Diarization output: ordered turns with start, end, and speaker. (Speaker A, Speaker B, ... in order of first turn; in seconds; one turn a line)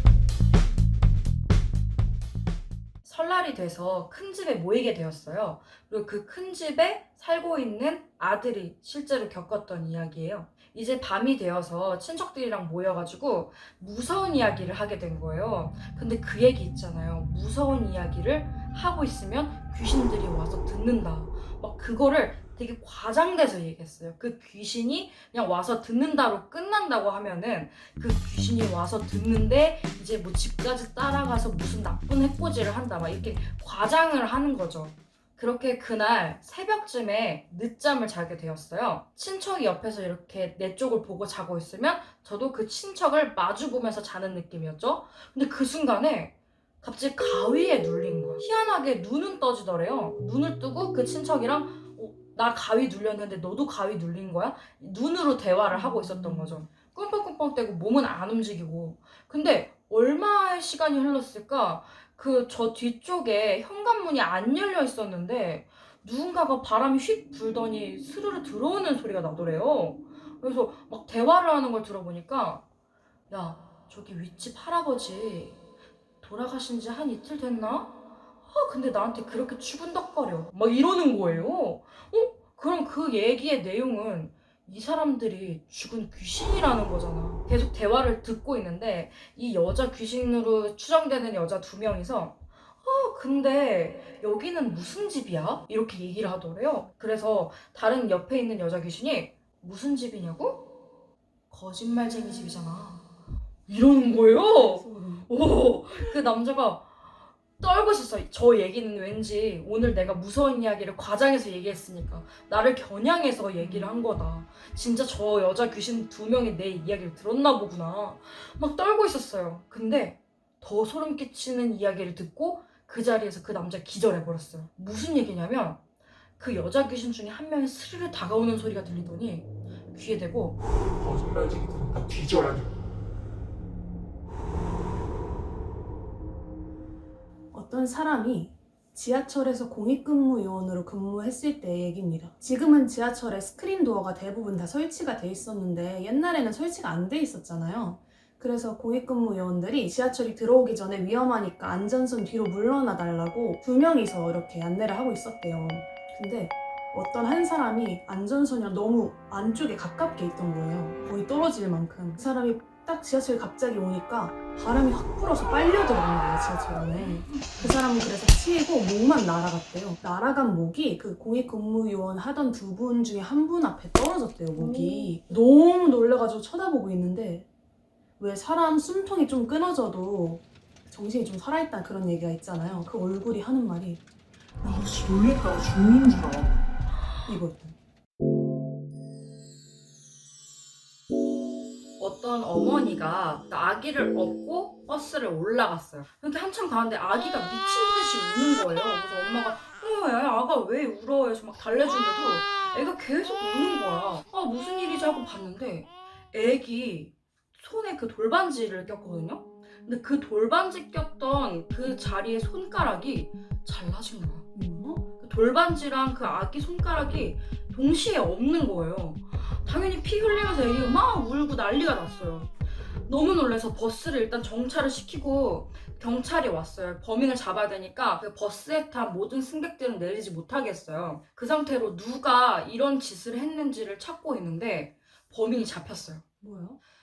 Speaker A: 3.0-72.6
Speaker B: 55.7-56.6
Speaker A: 73.3-75.6
Speaker A: 76.2-100.7
Speaker A: 101.5-103.0
Speaker A: 103.7-107.0
Speaker B: 104.5-105.3
Speaker A: 107.6-125.8
Speaker B: 113.6-113.9
Speaker A: 126.4-130.6
Speaker C: 131.0-132.7
Speaker B: 137.5-177.5
Speaker A: 167.0-167.7
Speaker B: 178.2-184.0
Speaker C: 184.6-186.6
Speaker B: 187.2-187.8
Speaker A: 192.0-214.5
Speaker B: 214.5-215.0
Speaker A: 215.2-222.5
Speaker A: 223.1-236.2
Speaker B: 236.4-236.8